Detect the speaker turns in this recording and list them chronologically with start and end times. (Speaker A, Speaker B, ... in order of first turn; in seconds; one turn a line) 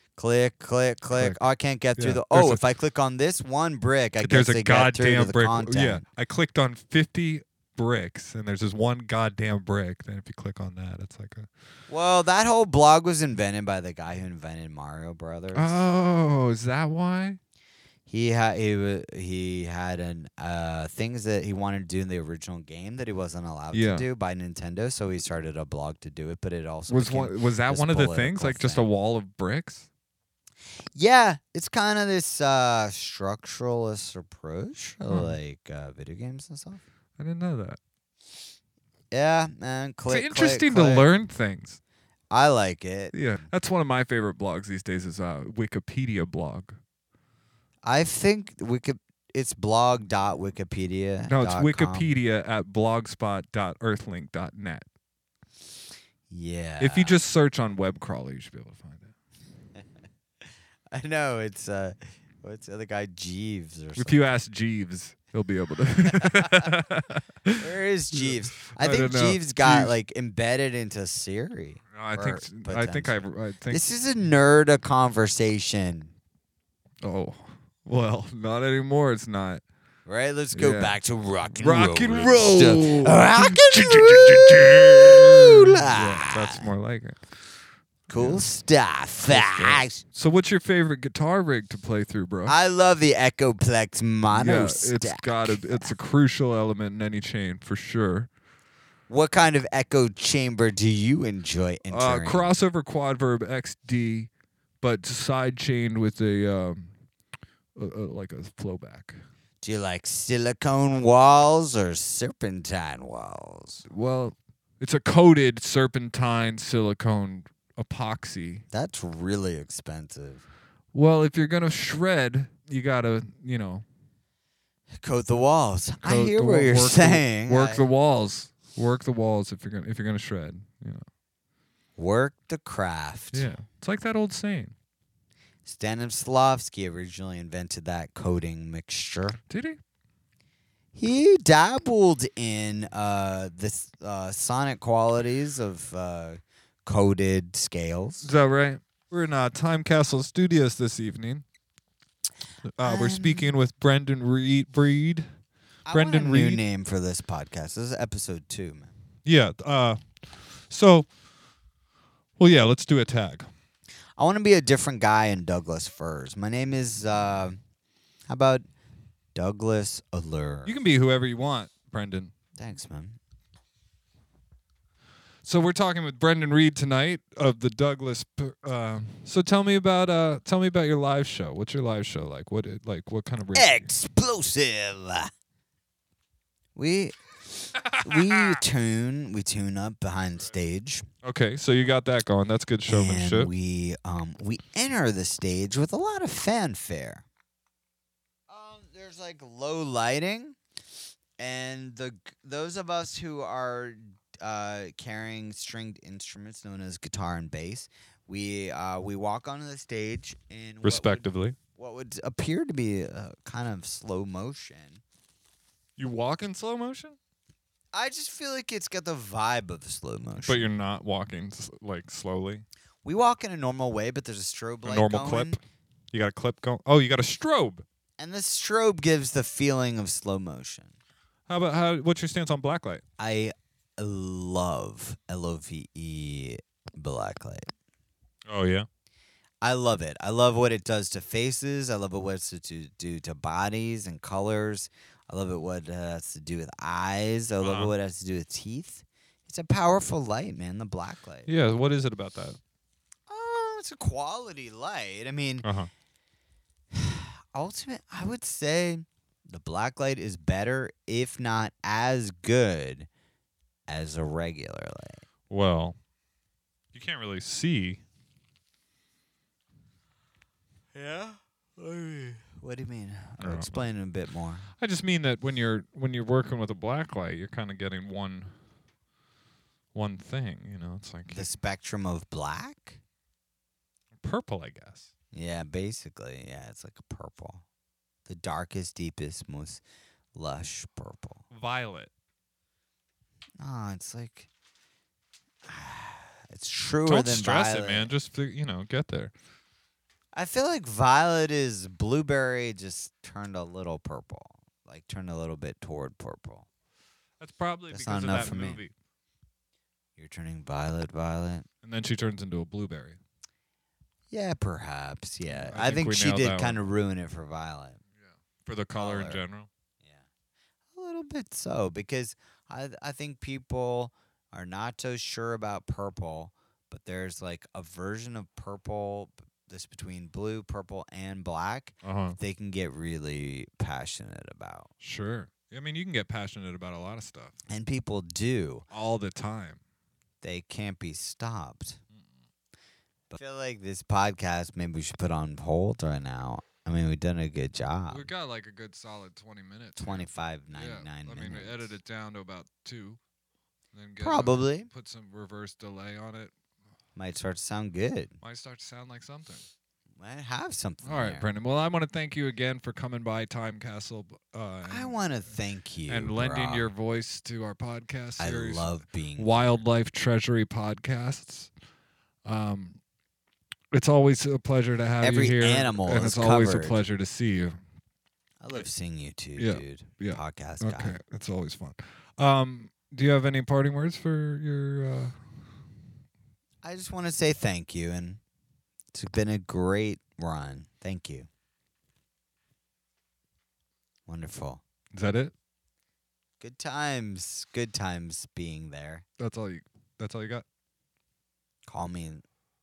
Speaker A: 0.2-6.0
Speaker B: 1.1-1.4
Speaker B: 2.0-2.6
Speaker B: 4.2-11.5
Speaker A: 11.9-15.8
Speaker B: 15.5-17.4
Speaker A: 18.1-28.9
Speaker B: 23.7-24.1
Speaker B: 26.9-29.9
Speaker A: 30.9-36.8
Speaker B: 35.1-35.4
Speaker B: 37.2-37.8
Speaker A: 39.1-41.1
Speaker B: 40.1-41.8
Speaker A: 42.3-43.5
Speaker B: 43.1-46.8
Speaker A: 47.8-52.1
Speaker B: 51.3-54.9
Speaker A: 56.3-57.2
Speaker B: 56.8-59.1
Speaker A: 60.9-64.2
Speaker B: 64.0-69.9
Speaker A: 66.1-66.6
Speaker A: 67.6-76.1
Speaker B: 71.9-73.8
Speaker B: 77.0-79.6
Speaker A: 80.1-86.7
Speaker B: 80.5-81.0
Speaker B: 81.5-87.2
Speaker A: 88.1-90.0
Speaker B: 88.1-88.5
Speaker B: 89.3-92.6
Speaker A: 92.5-95.9
Speaker B: 94.3-98.3
Speaker A: 99.1-102.5
Speaker B: 101.9-104.3
Speaker B: 104.8-106.9
Speaker B: 107.8-109.2
Speaker A: 109.6-113.8
Speaker B: 113.9-118.7
Speaker A: 118.7-120.5
Speaker B: 120.9-123.8
Speaker A: 125.0-127.8
Speaker B: 126.0-131.1
Speaker A: 132.0-133.5
Speaker B: 133.3-134.8
Speaker A: 135.7-139.4
Speaker B: 139.5-139.8
Speaker A: 140.9-148.3
Speaker B: 148.2-151.4
Speaker B: 152.7-155.3
Speaker A: 152.8-153.5
Speaker A: 155.9-158.9
Speaker B: 155.9-156.6
Speaker B: 159.2-160.1
Speaker B: 160.7-161.1
Speaker B: 162.4-163.5
Speaker A: 164.2-167.6
Speaker A: 168.3-168.7
Speaker A: 169.3-170.8
Speaker B: 170.7-172.3
Speaker A: 172.6-173.2
Speaker B: 175.4-183.9
Speaker A: 183.5-185.3
Speaker A: 186.8-191.1
Speaker B: 187.8-188.6
Speaker B: 191.2-193.5
Speaker A: 192.9-197.2
Speaker A: 198.5-200.6
Speaker A: 201.4-215.0
Speaker B: 210.8-211.6
Speaker B: 216.0-217.2
Speaker A: 217.9-220.7
Speaker B: 220.4-222.7
Speaker A: 223.0-225.6
Speaker B: 224.8-225.6
Speaker B: 226.1-227.8
Speaker A: 228.2-230.9
Speaker B: 231.5-233.0
Speaker A: 233.2-237.7
Speaker B: 238.5-238.9
Speaker A: 239.6-251.5
Speaker B: 247.6-247.9
Speaker B: 251.5-252.6
Speaker A: 253.3-255.7
Speaker B: 255.6-255.9
Speaker A: 256.9-263.1
Speaker A: 263.9-265.3
Speaker B: 265.5-266.0
Speaker B: 266.9-268.0
Speaker A: 270.9-274.7
Speaker B: 273.4-273.9
Speaker B: 274.8-278.5
Speaker B: 279.9-281.5
Speaker A: 281.3-283.0
Speaker B: 284.2-285.1
Speaker A: 285.3-287.6
Speaker A: 288.3-289.8
Speaker A: 290.4-291.4
Speaker B: 291.5-292.1
Speaker A: 293.6-294.5
Speaker A: 295.7-298.1
Speaker B: 297.1-299.3
Speaker A: 300.3-306.7
Speaker B: 307.4-308.9
Speaker A: 307.9-308.8
Speaker A: 310.2-311.7
Speaker B: 311.8-313.2
Speaker A: 314.3-318.0
Speaker B: 315.4-316.8
Speaker B: 318.2-319.7
Speaker A: 318.9-319.4
Speaker A: 320.0-320.3
Speaker A: 320.9-334.9
Speaker B: 332.0-332.4
Speaker B: 335.0-337.6
Speaker A: 337.7-338.9
Speaker B: 338.9-339.8
Speaker A: 340.4-342.0
Speaker A: 343.3-348.3
Speaker B: 348.1-353.2
Speaker A: 350.0-351.9
Speaker B: 353.9-356.5
Speaker A: 354.2-354.9
Speaker A: 357.2-358.4
Speaker B: 358.4-359.7
Speaker A: 360.2-361.5
Speaker B: 361.0-365.1
Speaker A: 364.9-366.9
Speaker B: 366.1-371.7
Speaker A: 368.4-369.7
Speaker B: 372.4-373.0
Speaker B: 373.9-377.8
Speaker A: 375.2-377.0
Speaker A: 378.6-381.2
Speaker B: 379.6-385.4
Speaker A: 386.8-388.4
Speaker A: 389.1-391.5
Speaker A: 394.3-394.8
Speaker B: 395.1-395.5
Speaker A: 396.6-399.2
Speaker B: 399.4-400.6
Speaker A: 401.9-402.4